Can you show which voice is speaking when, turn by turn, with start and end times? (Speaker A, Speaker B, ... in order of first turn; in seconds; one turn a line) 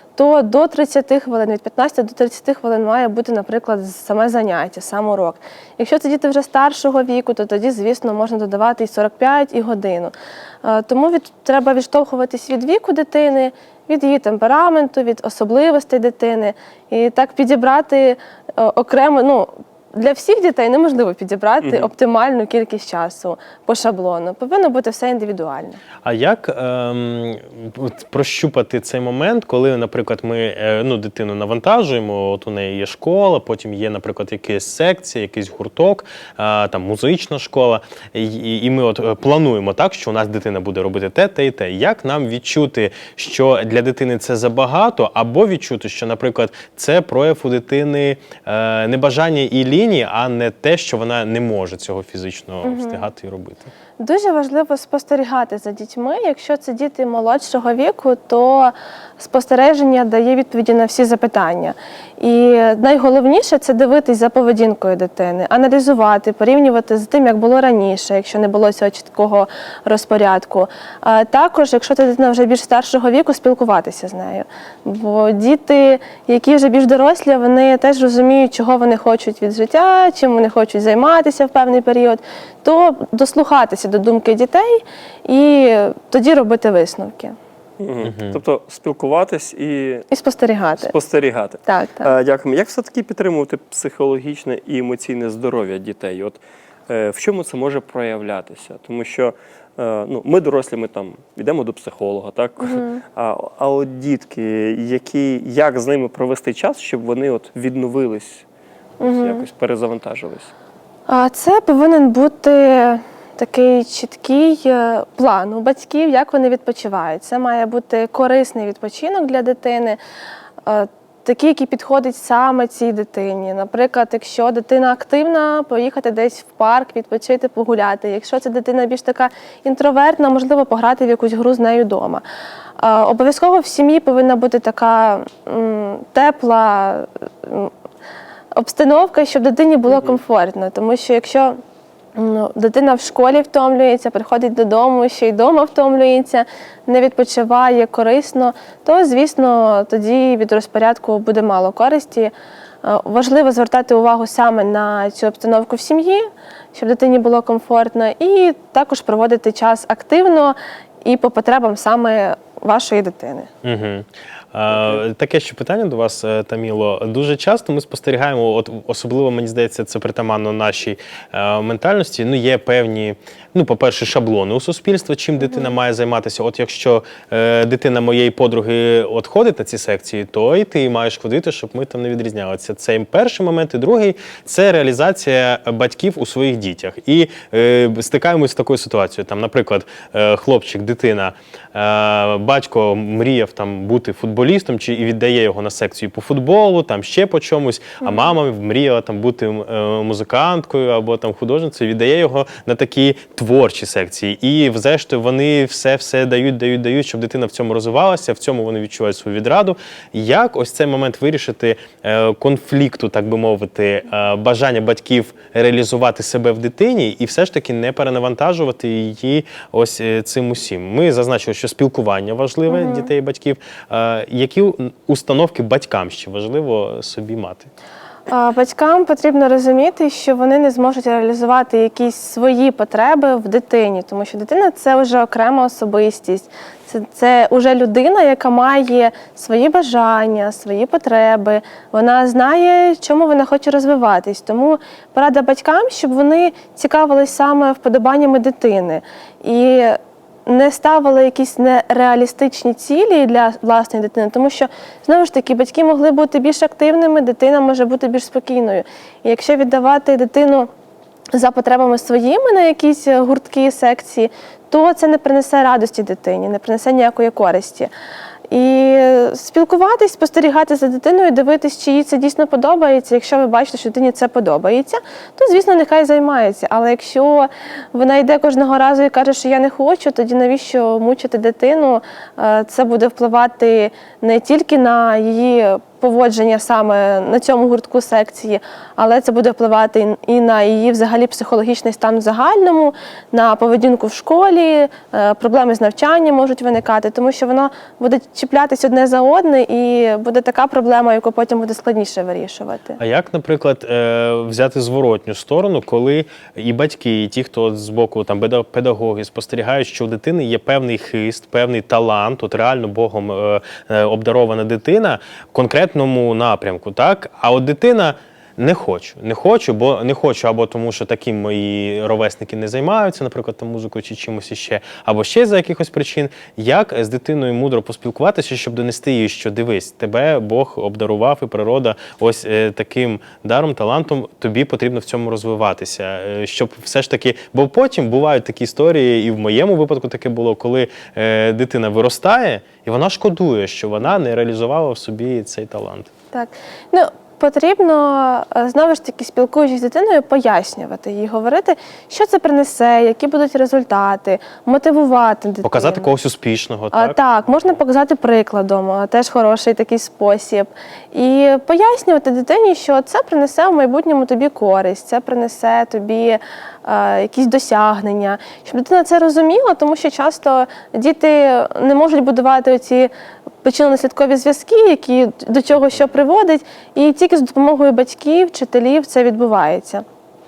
Speaker A: 0.1-25.8
Speaker B: 21.6-21.9
Speaker C: 26.0-53.7
Speaker A: 52.6-53.1
Speaker A: 54.0-87.3
Speaker B: 87.8-90.1
Speaker C: 88.0-88.4
Speaker A: 90.1-90.9
Speaker B: 90.8-108.4
Speaker A: 91.6-92.1
Speaker A: 102.6-103.0
Speaker A: 109.0-109.5
Speaker B: 109.0-110.5
Speaker A: 111.1-120.0
Speaker A: 120.6-132.2
Speaker A: 132.8-137.7
Speaker A: 138.6-141.6
Speaker B: 139.9-140.2
Speaker A: 142.2-163.5
Speaker C: 163.6-227.7
Speaker B: 164.7-165.0
Speaker A: 175.4-175.7
Speaker A: 198.0-198.3
Speaker A: 222.7-223.1
Speaker A: 228.3-260.7
Speaker A: 261.3-267.9
Speaker A: 268.5-303.0
Speaker C: 303.0-346.1
Speaker A: 346.3-356.1
Speaker C: 355.6-357.2
Speaker A: 356.9-373.1
Speaker A: 373.6-380.0